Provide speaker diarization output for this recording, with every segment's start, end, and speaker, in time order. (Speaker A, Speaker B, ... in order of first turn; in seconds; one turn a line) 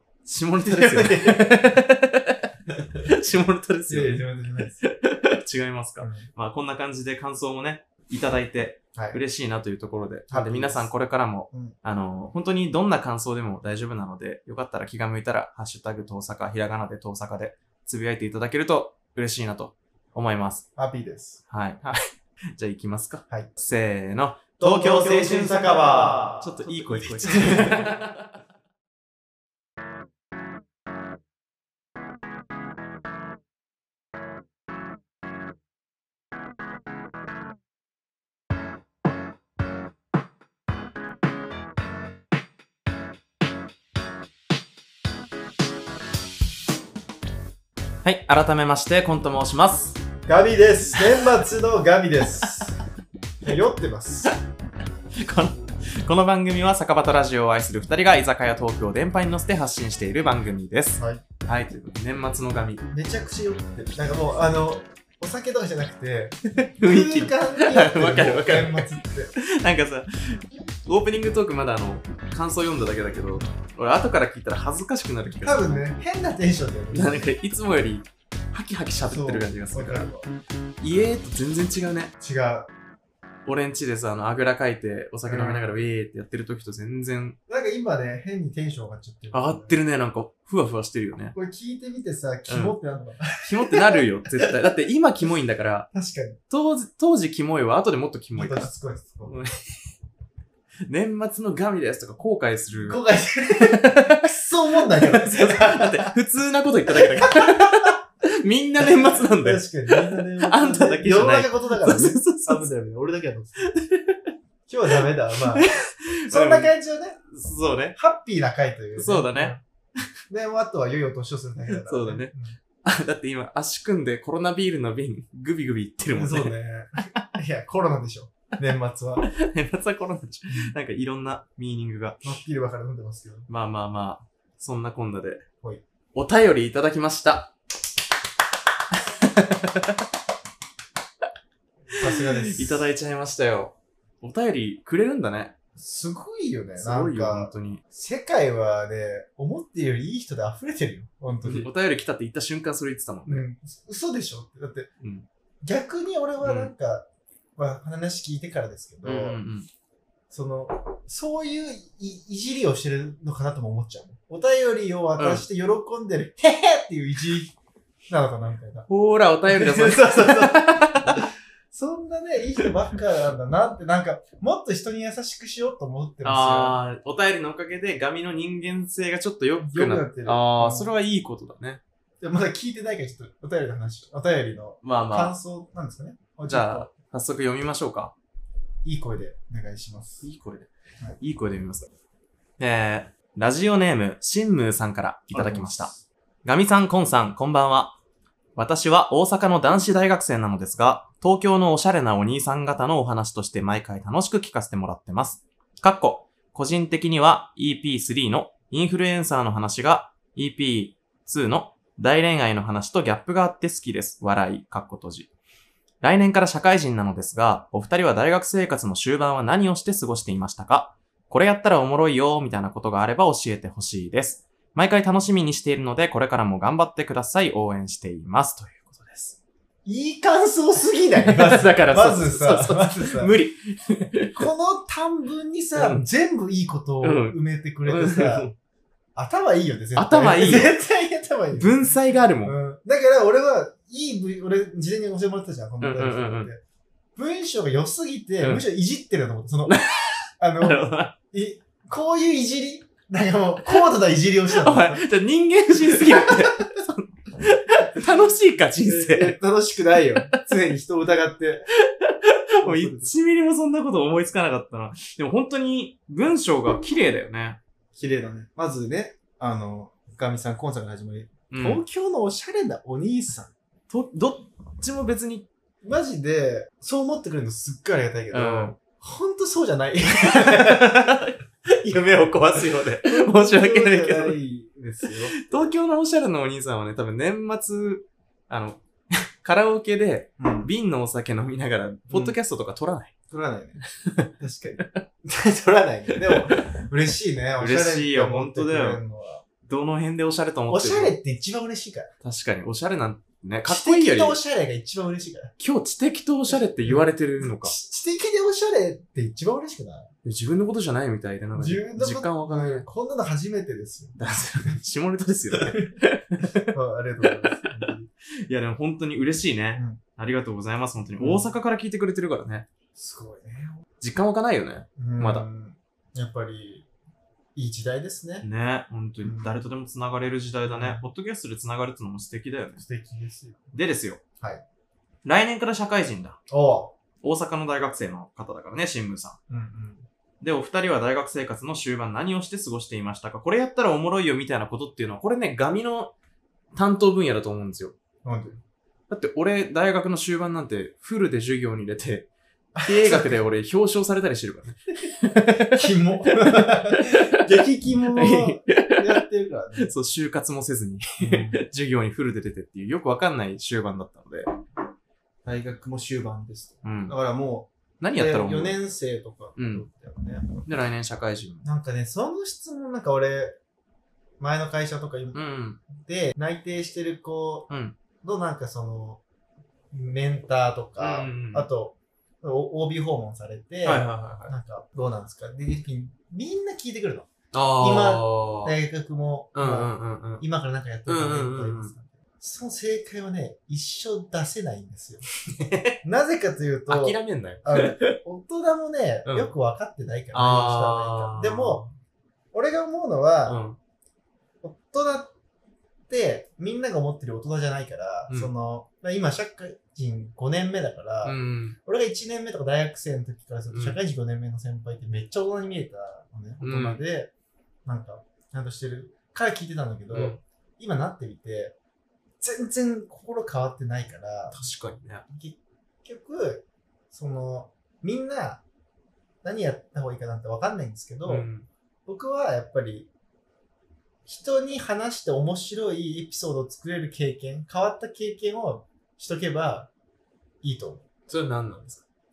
Speaker A: 0.2-4.3
Speaker B: 0.6-1.6
Speaker B: 3.9-4.8
Speaker A: 4.8-20.7
Speaker B: 6.0-6.3
Speaker B: 8.9-9.2
Speaker B: 10.3-10.9
Speaker B: 11.5-11.8
Speaker B: 20.8-21.4
Speaker A: 21.5-22.0
Speaker A: 22.6-28.3
Speaker B: 24.6-27.9
Speaker A: 48.0-50.0
Speaker B: 50.3-52.8
Speaker A: 52.4-52.7
Speaker B: 53.4-54.3
Speaker A: 55.2-62.9
Speaker B: 61.0-61.2
Speaker B: 62.9-69.3
Speaker A: 66.6-75.8
Speaker B: 75.4-77.3
Speaker A: 76.9-80.1
Speaker B: 79.1-80.3
Speaker A: 80.8-82.1
Speaker B: 82.2-82.7
Speaker A: 83.5-87.4
Speaker B: 85.3-85.8
Speaker B: 87.5-89.8
Speaker A: 89.3-91.3
Speaker B: 91.3-94.7
Speaker A: 92.5-92.8
Speaker A: 93.4-95.9
Speaker B: 95.9-96.4
Speaker A: 96.5-98.7
Speaker B: 98.4-99.4
Speaker A: 99.2-99.6
Speaker A: 100.9-103.0
Speaker B: 102.8-106.1
Speaker A: 103.5-112.7
Speaker B: 106.9-108.0
Speaker B: 108.8-113.7
Speaker A: 113.7-114.2
Speaker B: 114.7-115.7
Speaker A: 115.0-116.7
Speaker B: 116.3-117.2
Speaker A: 117.3-118.0
Speaker B: 118.0-119.6
Speaker A: 119.0-119.6
Speaker B: 120.3-122.6
Speaker A: 121.7-126.6
Speaker B: 126.2-129.3
Speaker A: 129.3-132.2
Speaker B: 132.2-133.5
Speaker A: 133.5-135.5
Speaker A: 136.1-137.5
Speaker A: 139.2-140.0
Speaker B: 141.9-142.8
Speaker A: 142.0-145.6
Speaker B: 145.8-151.7
Speaker A: 146.8-147.8
Speaker A: 151.4-153.5
Speaker B: 153.3-154.9
Speaker B: 155.6-159.4
Speaker A: 156.4-156.7
Speaker A: 159.0-159.7
Speaker B: 160.3-167.6
Speaker A: 165.2-165.4
Speaker B: 168.1-168.9
Speaker A: 168.9-171.3
Speaker B: 169.5-176.8
Speaker A: 176.2-181.8
Speaker B: 179.6-180.9
Speaker B: 182.2-186.9
Speaker A: 184.8-185.4
Speaker A: 186.5-188.1
Speaker B: 188.8-190.2
Speaker A: 190.2-190.7
Speaker A: 191.2-191.9
Speaker A: 192.6-195.9
Speaker B: 195.3-196.0
Speaker A: 196.4-198.0
Speaker A: 198.6-215.3
Speaker A: 216.0-229.4
Speaker B: 229.8-233.3
Speaker A: 231.2-234.5
Speaker B: 234.3-238.5
Speaker A: 235.8-236.1
Speaker A: 237.0-238.6
Speaker B: 239.2-241.9
Speaker A: 239.9-240.8
Speaker A: 241.5-242.6
Speaker B: 242.4-246.6
Speaker A: 245.8-246.5
Speaker B: 247.2-249.8
Speaker A: 249.7-251.2
Speaker B: 250.4-255.1
Speaker A: 254.5-259.4
Speaker B: 255.9-256.7
Speaker B: 258.9-261.7
Speaker A: 262.0-267.6
Speaker B: 262.6-263.1
Speaker B: 267.9-273.5
Speaker A: 271.5-271.8
Speaker A: 273.9-275.5
Speaker B: 275.8-281.1
Speaker A: 278.3-278.8
Speaker A: 280.2-284.4
Speaker B: 283.0-285.4
Speaker A: 285.4-293.1
Speaker B: 290.4-290.7
Speaker B: 292.1-292.4
Speaker B: 293.3-293.8
Speaker A: 294.0-294.3
Speaker B: 294.4-299.4
Speaker A: 296.1-296.6
Speaker A: 297.6-299.0
Speaker A: 299.7-301.2
Speaker B: 300.7-302.1
Speaker A: 302.2-304.4
Speaker B: 303.7-305.5
Speaker A: 305.6-307.8
Speaker B: 306.5-310.1
Speaker A: 310.2-312.9
Speaker B: 311.6-314.8
Speaker A: 314.2-317.9
Speaker B: 315.5-315.9
Speaker B: 316.7-318.1
Speaker A: 318.5-322.7
Speaker B: 321.2-321.5
Speaker B: 322.9-323.8
Speaker A: 324.0-325.5
Speaker B: 325.0-326.9
Speaker B: 327.6-328.5
Speaker A: 328.4-332.8
Speaker B: 329.2-329.6
Speaker B: 330.6-331.0
Speaker B: 332.8-333.7
Speaker A: 333.7-334.2
Speaker A: 335.2-336.4
Speaker B: 336.5-336.9
Speaker A: 337.2-339.4
Speaker B: 339.5-340.1
Speaker A: 340.4-346.1
Speaker A: 346.8-348.0
Speaker B: 348.2-348.6
Speaker A: 349.1-352.3
Speaker B: 352.7-353.4
Speaker A: 352.8-357.5
Speaker B: 355.7-359.9
Speaker A: 358.1-359.2
Speaker A: 359.8-364.5
Speaker B: 361.2-361.6
Speaker B: 365.4-370.6
Speaker A: 366.8-367.2
Speaker A: 368.0-368.8
Speaker A: 369.6-369.9
Speaker A: 370.7-371.7
Speaker B: 371.6-373.6
Speaker B: 374.4-375.4
Speaker A: 375.3-375.8
Speaker B: 375.9-377.7
Speaker A: 377.7-378.0
Speaker B: 378.2-379.2
Speaker B: 379.9-395.2
Speaker A: 381.0-381.7
Speaker A: 383.8-384.5
Speaker A: 387.5-388.8
Speaker A: 389.6-390.4
Speaker A: 391.1-391.9
Speaker A: 395.5-396.0
Speaker B: 396.0-401.8
Speaker A: 396.9-398.2
Speaker A: 399.3-399.5
Speaker A: 400.3-401.9
Speaker B: 402.5-403.6
Speaker A: 403.5-403.8
Speaker B: 404.6-405.3
Speaker B: 406.1-417.3
Speaker A: 411.2-411.8
Speaker A: 413.7-414.0
Speaker A: 416.6-417.0
Speaker B: 417.9-421.8
Speaker A: 420.1-420.4
Speaker B: 422.4-424.6
Speaker A: 424.5-425.2
Speaker B: 425.3-428.6
Speaker B: 429.4-431.5
Speaker A: 431.3-431.7
Speaker B: 432.1-433.1
Speaker B: 434.3-439.9
Speaker B: 440.6-441.1
Speaker A: 441.3-442.0